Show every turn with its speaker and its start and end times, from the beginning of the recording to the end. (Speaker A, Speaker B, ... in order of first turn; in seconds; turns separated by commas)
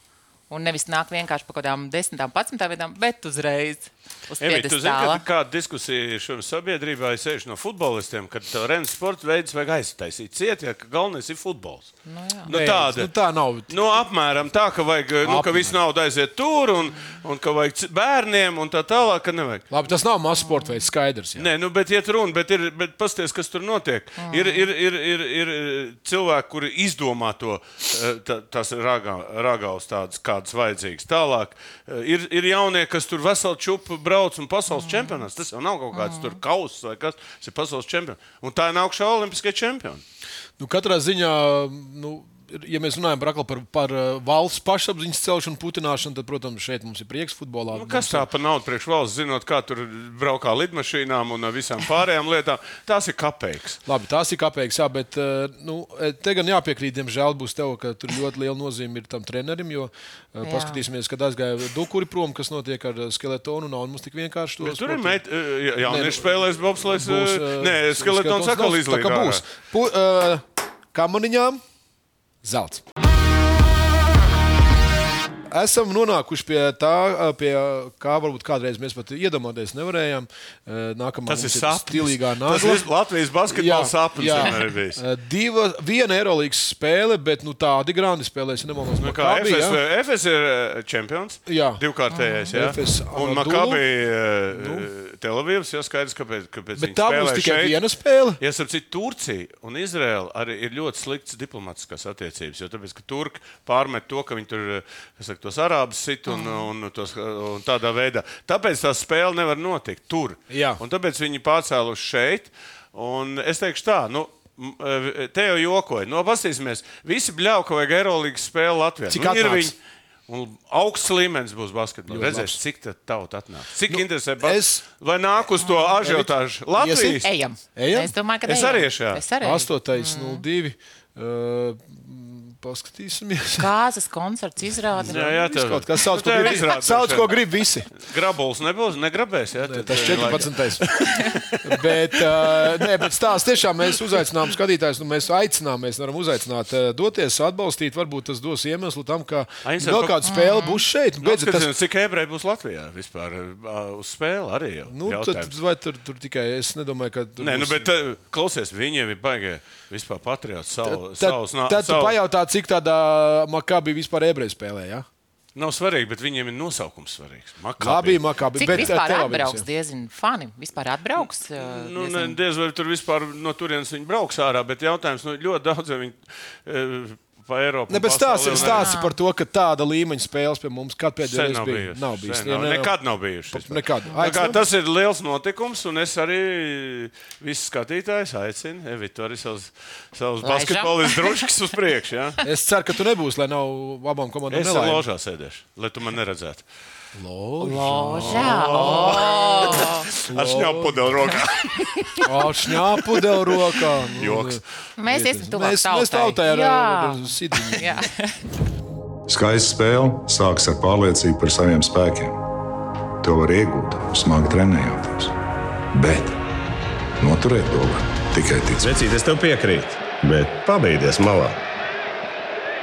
Speaker A: 0.5-5.2, Speaker B: 4.4-19.7, Speaker A: 12.0-12.5, Speaker C: 12.5-14.0, Speaker C: 15.2-15.8, Speaker C: 19.7-21.5, Speaker A: 20.4-20.8, Speaker B: 21.4-40.0, Speaker A: 24.2-24.7, Speaker A: 34.8-35.2, Speaker A: 35.9-36.4, Speaker C: 40.6-48.3, Speaker B: 47.7-53.8, Speaker C: 53.9-65.2, Speaker A: 60.4-60.8, Speaker B: 64.6-69.4, Speaker C: 65.8-71.6, Speaker C: 72.4-72.8, Speaker C: 75.5-82.9, Speaker B: 81.3-85.0, Speaker C: 83.5-89.8, Speaker B: 89.0-97.8, Speaker C: 91.5-91.8, Speaker A: 92.1-92.5, Speaker C: 92.5-93.8, Speaker C: 94.5-94.9, Speaker C: 96.8-98.4, Speaker B: 98.4-119.8, Speaker A: 106.3-106.7, Speaker C: 110.5-110.8, Speaker C: 119.1-119.7, Speaker B: 120.3-127.3, Speaker C: 122.1-122.6, Speaker C: 123.9-124.8, Speaker A: 125.6-125.9, Speaker C: 126.0-128.1, Speaker A: 127.2-130.4, Speaker B: 128.4-129.2, Speaker C: 129.4-133.7, Speaker A: 133.6-135.3, Speaker C: 134.9-137.9, Speaker B: 135.0-142.9, Speaker C: 139.6-151.7, Speaker B: 149.6-150.2, Speaker A: 150.2-150.8, Speaker B: 151.2-155.5, Speaker C: 154.9-157.9, Speaker B: 157.4-162.1, Speaker C: 160.8-165.1, Speaker B: 165.5-168.9, Speaker C: 167.8-169.6, Speaker A: 168.5-172.4, Speaker B: 171.2-178.9, Speaker C: 177.9-184.6, Speaker A: 178.5-179.1, Speaker B: 181.2-192.4, Speaker A: 184.1-184.4, Speaker A: 190.4-191.5, Speaker C: 192.4-195.1, Speaker B: 194.5-196.7, Speaker C: 197.1-199.3, Speaker A: 197.6-200.1, Speaker B: 198.1-202.3, Speaker C: 200.2-201.2, Speaker C: 202.2-208.0, Speaker B: 204.2-204.6, Speaker A: 205.0-208.4, Speaker D: 209.3-212.4, Speaker D: 213.2-215.3, Speaker D: 215.9-216.4, Speaker D: 217.2-219.0, Speaker E: 218.8-221.6